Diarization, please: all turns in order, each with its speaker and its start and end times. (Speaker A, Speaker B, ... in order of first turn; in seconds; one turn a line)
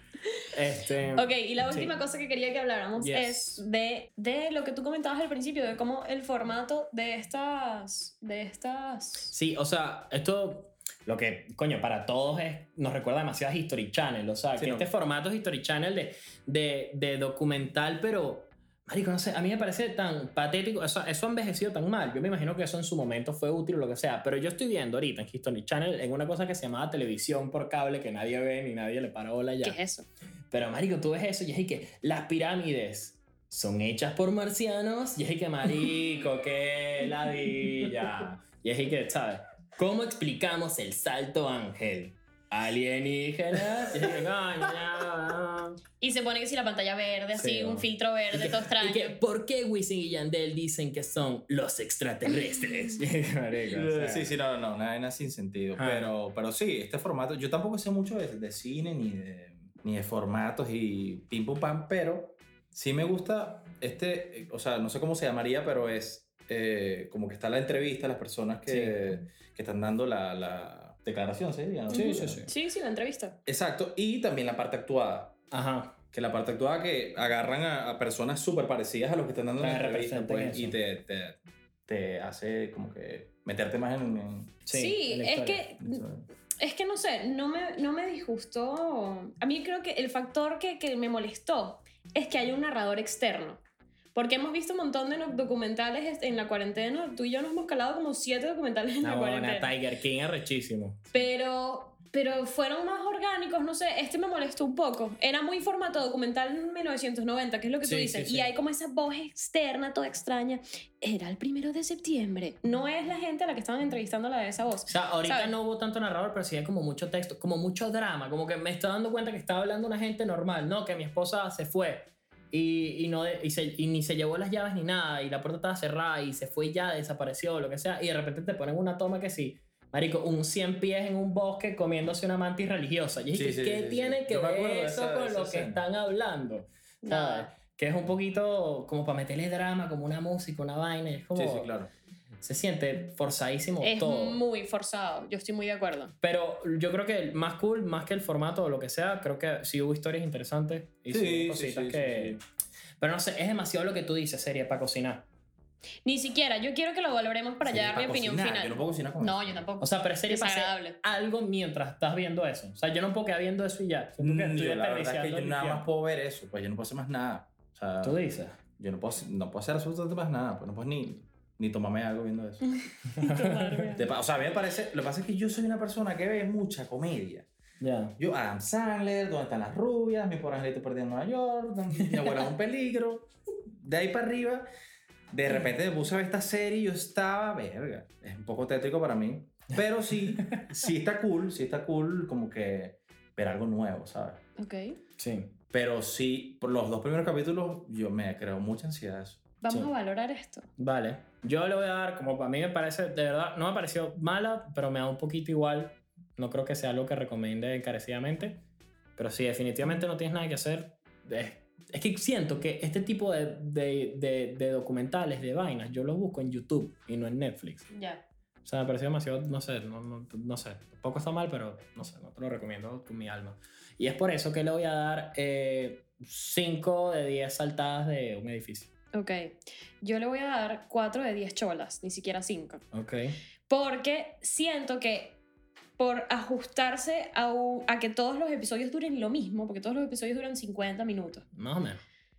Speaker A: 0.5-1.9
Speaker B: 1.1-9.3
Speaker A: 3.0-3.6
Speaker A: 9.3-29.8
Speaker C: 14.6-14.9
Speaker B: 29.6-30.1
Speaker A: 30.5-45.8
Speaker B: 46.0-49.2
Speaker A: 47.4-54.3
Speaker C: 53.7-72.5
Speaker A: 55.8-56.1
Speaker A: 68.7-69.0
Speaker A: 71.9-72.5
Speaker B: 71.9-73.4
Speaker C: 73.5-75.4
Speaker A: 75.5-76.0
Speaker C: 76.1-84.5
Speaker A: 79.6-80.8
Speaker A: 84.7-85.7
Speaker B: 84.7-86.1
Speaker C: 85.8-86.2
Speaker B: 86.6-93.6
Speaker B: 94.2-99.7
Speaker A: 99.0-101.1
Speaker B: 101.1-115.5
Speaker A: 107.8-108.5
Speaker A: 114.9-141.7
Speaker C: 133.3-135.8
Speaker B: 137.0-137.5
Speaker C: 141.3-141.9
Speaker A: 142.4-144.4
Speaker B: 143.8-146.1
Speaker A: 146.2-152.4
Speaker C: 151.1-152.4
Speaker A: 153.0-155.3
Speaker B: 156.1-161.0
Speaker C: 157.6-159.6
Speaker A: 159.8-165.9
Speaker C: 164.2-168.2
Speaker A: 168.0-168.6
Speaker C: 168.8-172.6
Speaker B: 172.6-174.1
Speaker A: 173.1-173.9
Speaker C: 174.0-177.5
Speaker A: 177.8-178.2
Speaker C: 178.2-184.7
Speaker C: 185.3-194.4
Speaker A: 190.3-190.8
Speaker B: 194.6-195.0
Speaker A: 195.2-195.5
Speaker C: 195.7-199.4
Speaker B: 199.6-200.7
Speaker A: 200.8-208.6
Speaker A: 209.2-217.9
Speaker B: 217.9-218.2
Speaker A: 218.7-228.9
Speaker B: 229.1-232.8
Speaker A: 232.9-233.4
Speaker B: 233.7-235.4
Speaker B: 236.0-241.4
Speaker A: 241.5-242.0